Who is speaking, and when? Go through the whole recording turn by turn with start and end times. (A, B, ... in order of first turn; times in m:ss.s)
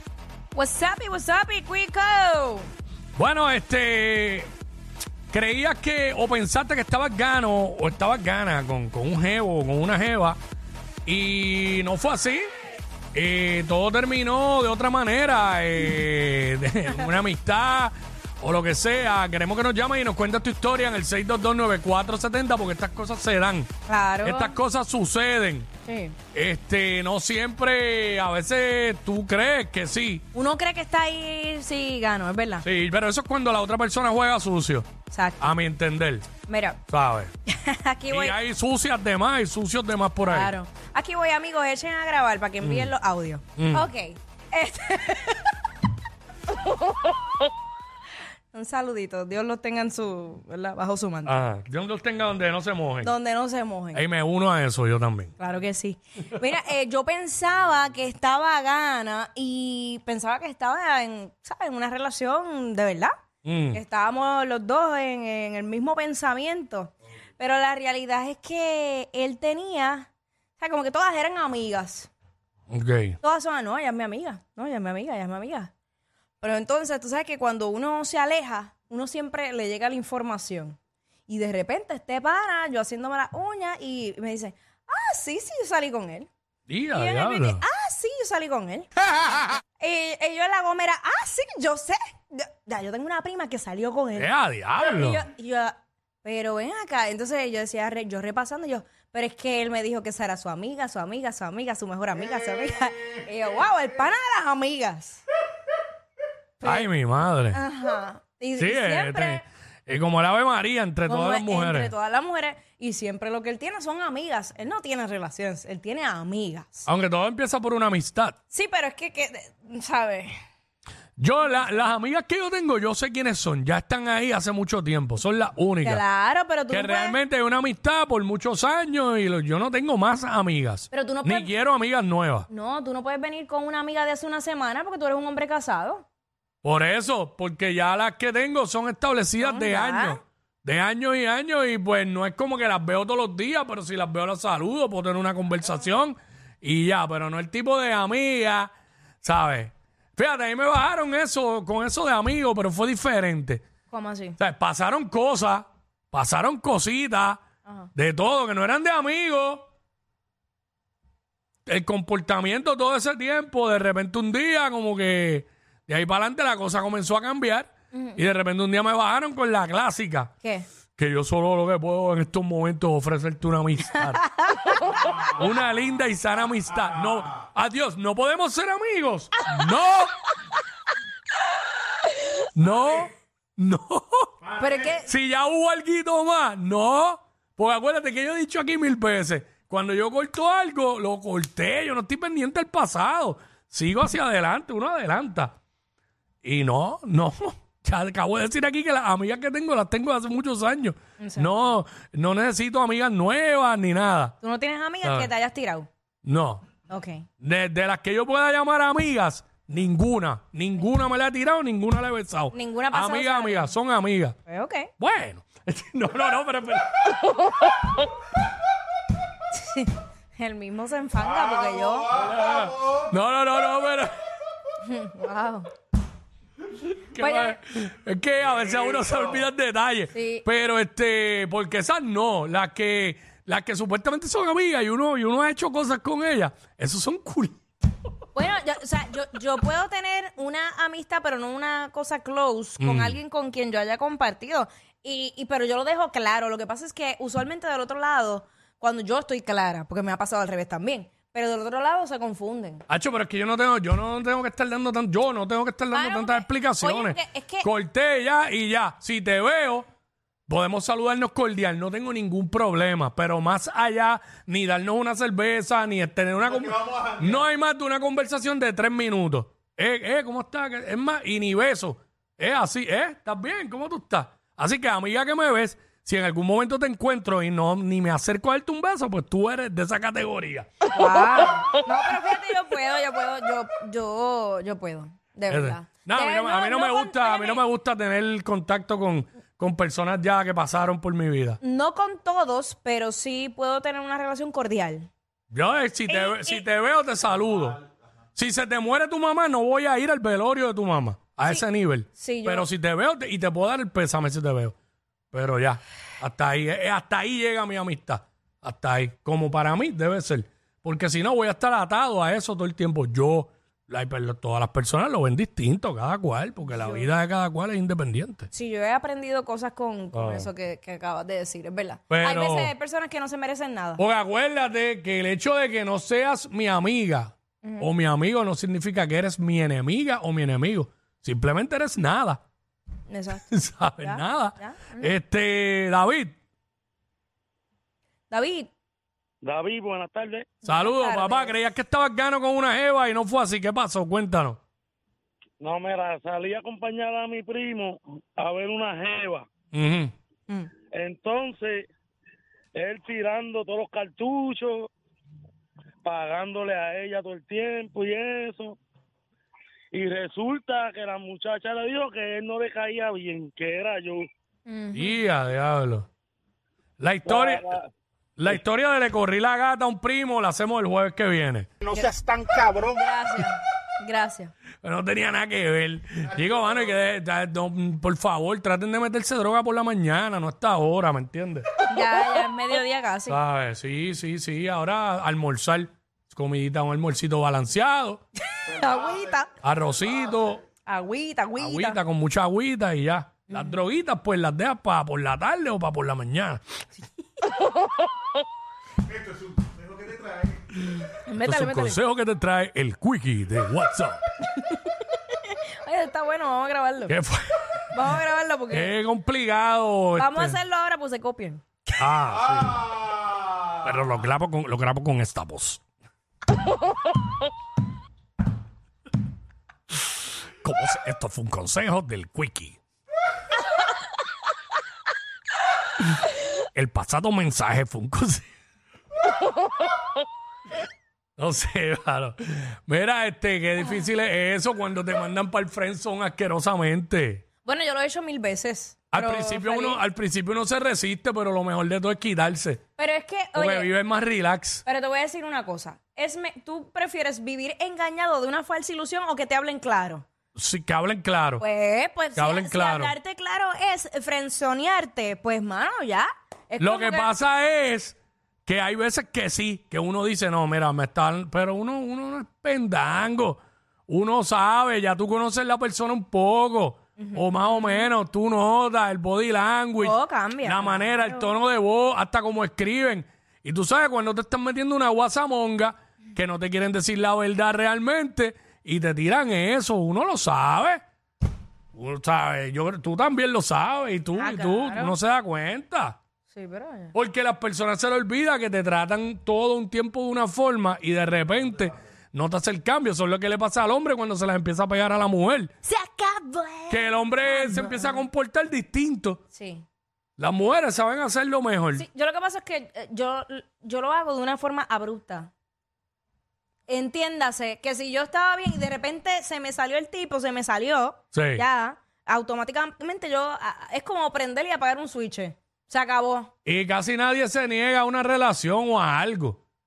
0:00.5-0:02.7 A
0:03.2-0:04.5 B
0:05.3-0:10.4 B
0:11.1-0:12.5 B
0:13.1-0:23.7 B
0:23.9-0:24.6 A
0:24.2-0:25.7 B
0:25.8-0:26.2 A
0:26.3-0:30.2 B
0:30.3-0:32.6 A
0:32.6-0:34.9 B
0:35.1-0:35.5 A
0:35.4-0:36.3 B
0:36.4-0:36.8 A
0:36.9-0:37.3 B
0:37.5-0:38.4 A
0:38.1-0:40.5 B
0:40.3-0:45.6 A
0:42.6-0:42.9 B
0:43.6-0:43.9 B
0:46.5-0:47.2 A
0:48.5-0:51.4 A
0:51.3-0:53.1 B
0:53.0-0:54.0 A
0:53.9-0:55.3 B
0:55.4-1:03.2 A
1:03.4-1:03.8 B
1:03.7-1:12.1 A
1:12.7-1:13.2 B
1:13.2-1:15.7 A
1:16.4-1:26.3 A
1:26.7-1:27.6 B
1:26.9-1:28.9 A
1:29.8-1:45.2 A
1:34.2-1:35.2 B
1:46.6-1:46.9 A
1:46.6-1:47.6 B
1:47.5-1:49.4 A
1:48.6-1:51.9 B
1:51.0-1:56.9 A
1:56.9-1:58.4 B
1:58.5-2:00.4 A
2:01.2-2:06.0 B
2:05.8-2:07.2 A
2:06.7-2:12.5 B
2:10.9-2:11.5 A
2:12.5-2:16.0 A
2:16.6-2:28.7 B
2:19.4-2:20.2 A
2:29.2-2:33.6 B
2:33.9-2:34.4 A
2:34.4-2:37.4 B
2:37.9-2:39.7 B
2:41.7-2:50.3 B
2:47.9-2:48.2 A
2:51.0-2:54.2 B
2:54.0-2:55.3 A
2:55.2-3:00.1 B
3:02.5-3:04.5 B
3:04.6-3:05.1 A
3:05.0-3:15.5 B
3:16.4-3:24.3 B
3:21.2-3:21.5 A
3:24.4-3:25.9 A
3:25.0-3:25.3 B
3:26.2-3:26.6 B
3:26.9-3:27.3 A
3:27.4-3:34.4 B
3:32.5-3:33.7 A
3:34.4-3:34.9 A
3:35.0-3:37.3 B
3:39.5-3:42.3 A
3:42.2-3:44.1 B
3:44.8-3:45.7 A
3:47.1-3:57.6 B
3:47.2-3:47.6 A
3:50.1-3:50.5 A
3:58.3-4:12.8 A
4:02.8-4:03.2 B
4:12.9-4:19.9 B
4:15.9-4:17.7 A
4:20.5-4:41.2 B
4:40.9-4:47.6 A
4:45.5-4:51.6 B
4:51.6-4:55.1 A
4:55.5-4:57.8 B
4:56.1-4:56.6 A
4:58.4-5:04.7 B
5:01.4-5:02.7 A
5:05.3-5:18.5 B
5:16.7-5:17.1 A
5:18.5-5:24.0 A
5:20.1-5:20.5 B
5:22.1-5:22.7 B
5:24.0-5:32.4 B
5:27.6-5:27.9 A
5:33.1-5:33.5 A
5:33.5-5:36.4 B
5:34.0-5:35.1 A
5:38.3-5:38.7 A
5:39.4-5:40.5 C
5:40.6-5:41.6 A
5:40.6-5:44.6 B
5:45.6-5:49.5 C
5:49.7-5:50.1 B
5:50.9-5:51.9 C
5:52.8-5:54.9 C
5:56.0-5:58.8 C
5:59.9-6:04.3 C
6:04.7-6:05.2 A
6:04.9-6:06.1 B
6:07.0-6:07.8 B
6:07.2-6:07.9 C
6:08.4-6:11.7 B
6:11.9-6:14.5 A
6:14.8-6:21.7 B
6:21.8-6:23.4 A
6:23.3-6:28.2 B
6:28.5-6:29.5 A
6:29.6-6:30.6 B
6:30.9-6:32.0 A
6:31.6-6:36.6 B
6:33.5-6:33.8 A
6:40.9-6:44.2 B
6:41.2-6:42.0 A
6:44.5-6:44.8 A
6:45.3-6:47.2 A
6:47.1-6:47.6 B
6:47.9-6:48.9 A
6:48.7-6:50.6 B
6:50.2-6:51.6 A
6:52.0-6:55.8 B
7:00.6-7:02.8 B
7:06.7-7:08.5 B
7:11.4-7:17.4 B
7:17.6-7:20.0 A
7:19.1-7:22.8 B
7:23.0-7:23.9 A
7:23.6-7:24.8 B
7:24.8-7:30.2 A
7:30.6-7:31.6 B
7:31.6-7:37.3 A
7:32.4-7:33.1 B
7:36.8-8:01.0 B
7:47.2-7:48.1 A
7:50.0-7:51.5 A
8:01.9-8:06.2 B
8:04.3-8:05.1 A
8:06.5-8:07.1 A
8:07.1-8:15.7 B
8:15.8-8:18.2 A
8:16.9-8:19.4 B
8:19.5-8:19.8 A
8:20.4-8:22.0 B
8:21.9-8:25.5 A
8:26.9-8:36.5 A
8:31.3-8:31.6 B
8:36.6-8:39.6 B